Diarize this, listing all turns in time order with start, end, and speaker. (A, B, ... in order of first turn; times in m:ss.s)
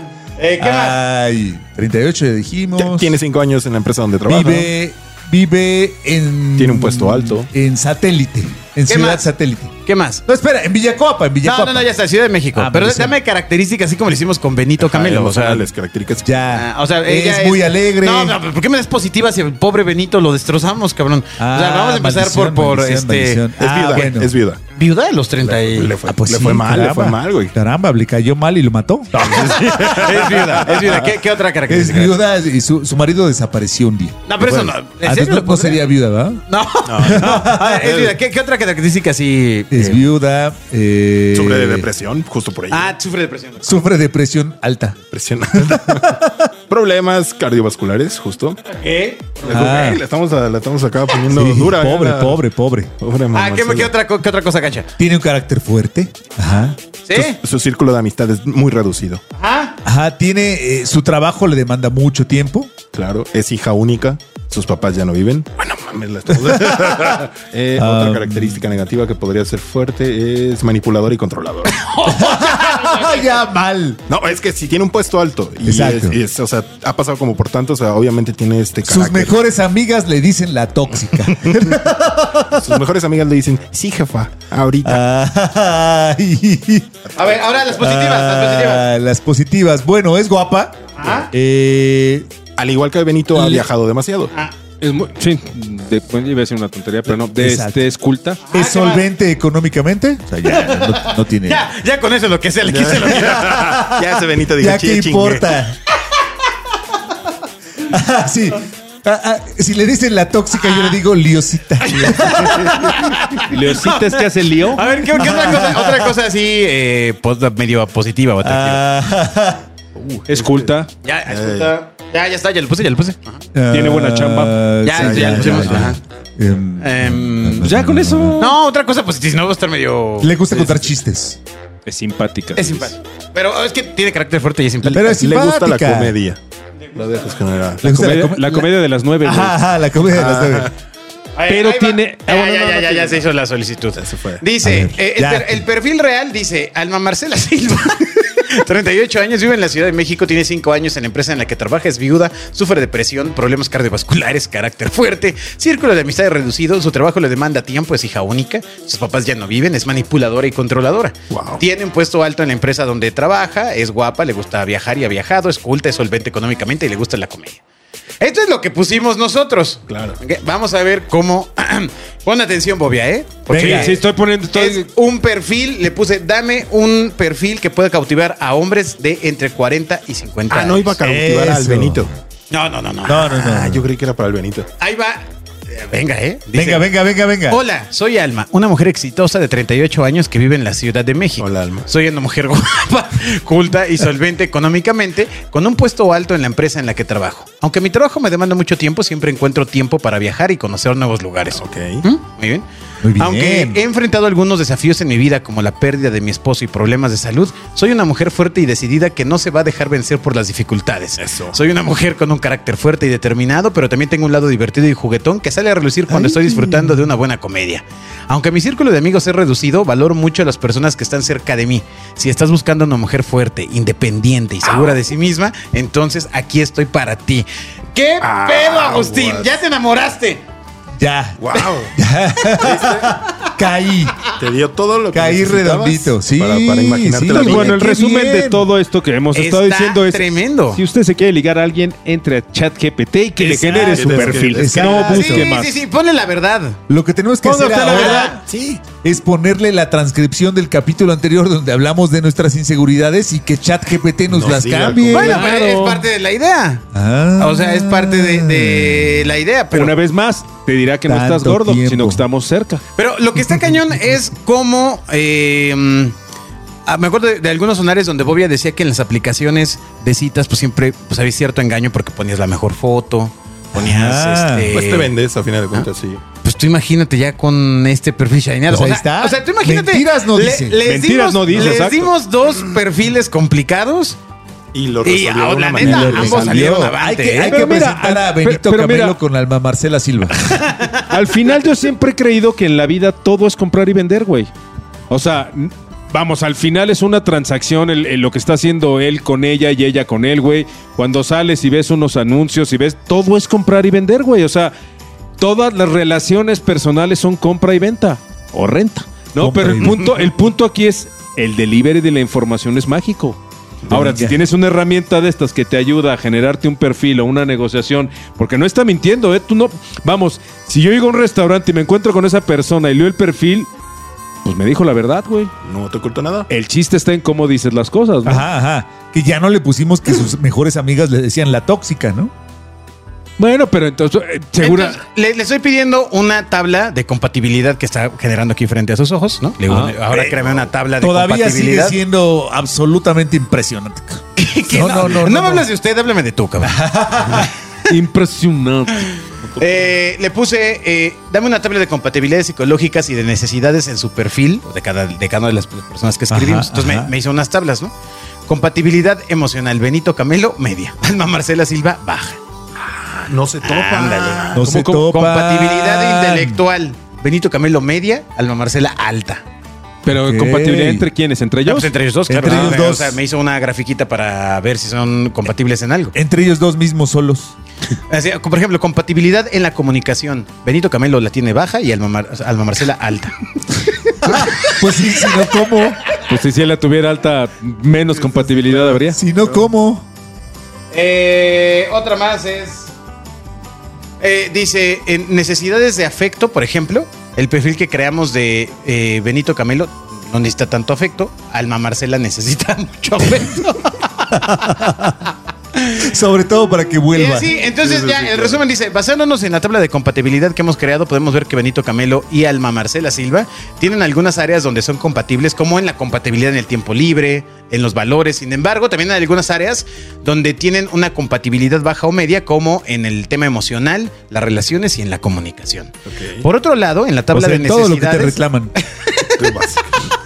0:00.4-0:01.0 A
0:00.6-0:03.1 B
0:02.8-0:04.7 C
0:04.2-0:09.7 B
0:06.6-0:07.5 C
0:08.9-0:09.3 A
0:09.8-0:10.2 A
0:10.2-0:11.9 B
0:11.4-0:15.7 A
0:12.5-0:13.2 B
0:14.8-0:16.4 C
0:16.2-0:18.4 B
0:16.5-0:23.4 A
0:21.4-0:24.3 B
0:23.6-0:24.6 C
0:24.7-0:25.9 A
0:25.4-0:27.5 C
0:26.0-0:29.1 B
0:29.1-0:32.2 A
0:29.2-0:31.1 C
0:31.7-0:36.4 B
0:34.3-0:35.8 A
0:36.5-0:40.0 A
0:36.8-0:38.2 C
0:37.0-0:37.9 B
0:39.7-0:41.9 B
0:41.3-0:42.9 C
0:42.7-0:43.8 A
0:43.6-0:45.0 B
0:45.1-0:48.6 C
0:45.5-0:46.5 B
0:48.7-0:49.9 A
0:49.4-0:52.4 C
0:49.5-0:50.0 B
0:51.3-0:52.9 B
0:53.0-0:53.9 C
0:53.3-0:54.9 A
0:55.0-0:57.2 B
0:57.0-0:57.4 A
0:57.4-0:59.2 C
0:59.4-0:59.7 A
0:59.8-1:02.7 B
1:02.9-1:11.8 C
1:07.8-1:08.6 B
1:11.7-1:13.4 A
1:12.0-1:14.0 B
1:14.1-1:19.4 C
1:15.6-1:16.2 B
1:18.8-1:22.8 B
1:21.3-1:21.6 C
1:22.6-1:25.0 C
1:24.8-1:26.9 B
1:27.2-1:27.5 C
1:27.2-1:28.9 A
1:27.8-1:32.3 B
1:31.0-1:31.3 A
1:32.6-1:34.3 C
1:34.8-1:38.4 D
1:37.4-1:37.8 B
1:38.5-1:39.0 A
1:38.5-1:41.7 B
1:40.5-1:43.6 A
1:42.6-1:45.5 C
1:43.2-1:45.8 B
1:47.8-1:53.1 B
1:50.6-1:51.0 A
1:51.8-1:58.8 A
1:52.2-1:52.9 C
1:53.5-1:54.9 D
1:55.1-1:56.1 B
1:58.4-1:59.6 B
1:59.9-2:00.7 C
2:00.3-2:00.9 D
2:01.0-2:03.4 A
2:01.3-2:01.7 C
2:03.5-2:08.4 B
2:03.7-2:04.6 D
2:04.8-2:06.0 A
2:04.9-2:05.9 C
2:06.8-2:07.7 A
2:07.6-2:08.6 D
2:08.4-2:10.9 A
2:10.2-2:11.4 B
2:11.8-2:12.9 D
2:12.5-2:15.2 A
2:14.9-2:16.4 C
2:14.9-2:16.1 B
2:16.9-2:17.4 A
2:16.9-2:17.8 C
2:17.8-2:18.7 B
2:17.8-2:19.6 D
2:19.2-2:20.7 B
2:20.1-2:20.7 C
2:21.4-2:47.6 A
2:21.5-2:23.2 D
2:24.0-2:24.4 C
2:24.6-2:25.6 B
2:41.3-2:41.6 C
2:48.2-3:01.0 A
2:49.9-2:50.2 C
2:53.5-2:53.9 B
2:53.5-2:54.9 D
3:00.5-3:02.1 C
3:01.0-3:02.1 B
3:02.5-3:03.7 A
3:03.0-3:03.8 B
3:03.4-3:04.7 C
3:04.8-3:06.9 A
3:06.5-3:07.6 B
3:07.5-3:22.6 A
3:11.4-3:11.9 C
3:21.5-3:22.0 C
3:23.0-3:23.8 B
3:23.2-3:50.4 A
3:31.2-3:31.6 C
3:36.1-3:37.0 B
3:44.7-3:45.0 C
3:48.2-3:49.5 C
3:51.0-3:54.2 B
3:51.4-3:51.9 C
3:52.6-3:53.1 C
3:54.4-3:57.7 C
3:55.1-3:58.7 B
3:57.3-4:05.8 D
3:59.3-4:00.8 A
4:03.4-4:05.5 B
4:03.6-4:05.1 C
4:04.8-4:06.8 A
4:06.9-4:08.4 B
4:07.4-4:08.4 A
4:07.9-4:08.8 C
4:09.0-4:15.4 B
4:14.3-4:15.4 C
4:15.1-4:16.8 A
4:15.1-4:16.0 D
4:16.9-4:19.3 B
4:17.4-4:19.9 A
4:19.7-4:22.8 D
4:21.1-4:22.2 B
4:23.0-4:26.1 A
4:26.8-4:35.1 A
4:33.7-4:34.7 B
4:34.7-4:36.2 C
4:36.4-4:44.2 A
4:38.7-4:40.8 B
4:40.8-4:42.1 D
4:41.5-4:41.8 C
4:44.7-4:46.6 C
4:45.0-4:47.6 A
4:45.8-4:50.4 B
4:47.4-4:49.2 D
4:50.6-4:51.0 A
4:51.1-4:54.5 D
4:55.1-5:04.7 D
5:05.4-5:23.7 D
5:09.4-5:10.1 B
5:13.9-5:14.4 B
5:24.4-5:25.5 D
5:25.6-5:26.5 C
5:26.5-5:28.4 D
5:28.2-5:32.3 B
5:33.4-5:35.0 D
5:34.6-5:42.0 A
5:39.7-5:40.0 D
5:41.0-5:45.7 B
5:44.4-5:47.5 A
5:46.6-5:47.5 B
5:47.9-5:49.1 D
5:49.4-5:49.9 C
5:49.6-5:57.9 A
5:56.3-5:57.1 B
5:58.5-6:02.4 A
6:03.1-6:09.4 A
6:03.3-6:04.6 C
6:04.5-6:06.6 B
6:04.6-6:05.0 D
6:10.0-6:11.9 D
6:10.1-6:11.1 B
6:11.6-6:16.2 A
6:12.3-6:13.2 B
6:12.4-6:12.8 D
6:16.1-6:17.5 B
6:18.1-6:23.3 A
6:24.2-6:24.7 A
6:24.2-6:26.0 B
6:26.2-6:29.2 D
6:29.0-6:30.0 B
6:30.9-6:32.9 A
6:34.2-6:44.8 A
6:44.3-6:45.2 B
6:45.8-6:46.1 A
6:46.0-6:47.5 B
6:47.1-7:09.6 A
6:47.6-6:48.6 C
7:06.1-7:06.4 C
7:07.3-7:08.7 B
7:09.4-7:10.0 C